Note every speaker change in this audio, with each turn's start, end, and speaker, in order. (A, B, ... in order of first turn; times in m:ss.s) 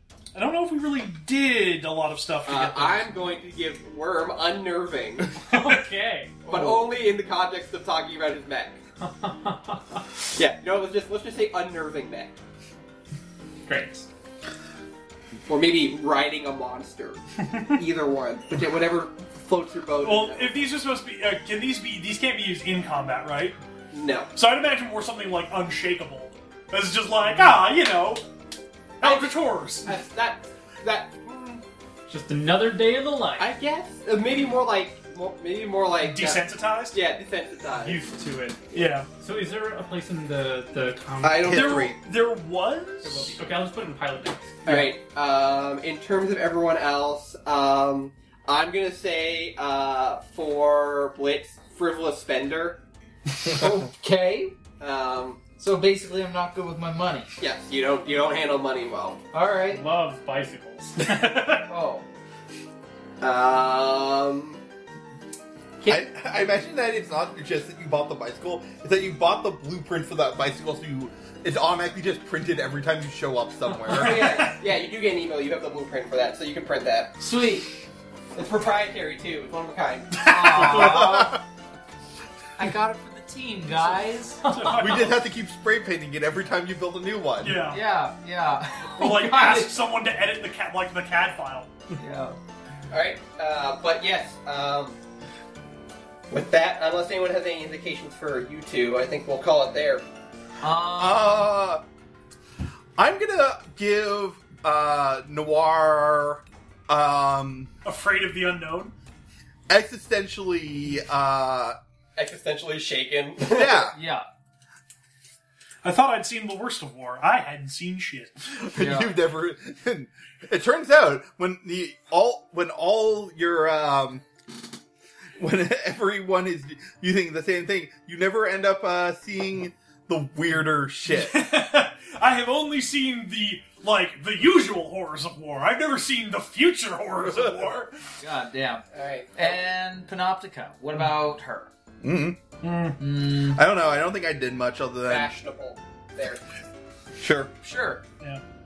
0:00.3-0:03.1 A
0:02.4-0:05.3 B
0:05.4-0:06.8 C
0:05.5-0:05.8 A
0:06.5-0:08.8 B
0:09.0-0:10.0 C
0:10.4-0:12.3 B
0:13.6-0:14.0 C
0:15.5-0:20.6 B
0:17.5-0:17.8 A
0:20.0-0:23.6 A
0:23.9-0:24.3 B
0:24.3-0:28.2 A
0:29.0-0:29.9 A
0:29.0-0:31.6 B
0:32.1-0:33.5 C
0:33.4-0:38.1 B
0:36.0-0:37.0 A
0:37.8-0:41.6 C
0:38.7-0:39.1 A
0:41.2-0:42.0 B
0:41.2-0:42.0 D
0:41.5-0:43.4 A
0:43.0-0:44.7 C
0:44.6-0:52.8 B
0:53.4-0:54.5 E
0:54.8-0:55.4 B
0:55.6-0:57.3 E
0:57.4-0:59.2 B
0:59.3-0:59.8 E
0:59.7-1:01.6 C
1:01.0-1:01.6 A
1:01.7-1:02.0 E
1:03.2-1:04.6 B
1:05.8-1:14.5 D
1:13.9-1:17.2 B
1:13.9-1:14.5 A
1:17.2-1:17.7 E
1:18.3-1:20.7 B
1:20.2-1:21.4 E
1:20.3-1:20.9 A
1:20.5-1:21.4 D
1:22.6-1:24.4 E
1:24.4-1:25.1 C
1:24.5-1:25.1 A
1:24.7-1:27.6 D
1:27.4-1:27.8 A
1:27.6-1:29.8 E
1:29.0-1:31.7 A
1:31.9-1:32.4 E
1:32.9-1:35.0 B
1:36.3-1:40.0 B
1:40.6-1:41.5 E
1:41.0-1:41.8 D
1:43.0-1:47.7 D
1:47.8-1:48.9 A
1:49.7-1:51.8 D
1:52.2-1:53.9 B
1:53.4-1:53.9 D
1:53.9-1:54.2 E
1:55.8-1:58.5 A
1:58.5-2:04.2 D
1:58.7-1:59.2 E
2:05.4-2:11.4 D
2:11.1-2:17.9 A
2:18.2-2:18.8 E
2:18.9-2:19.6 B
2:19.4-2:21.7 E
2:22.0-2:22.4 D
2:22.6-2:23.0 A
2:23.0-2:23.6 E
2:23.2-2:25.3 D
2:25.1-2:26.6 B
2:27.2-2:27.5 D
2:27.6-2:28.0 E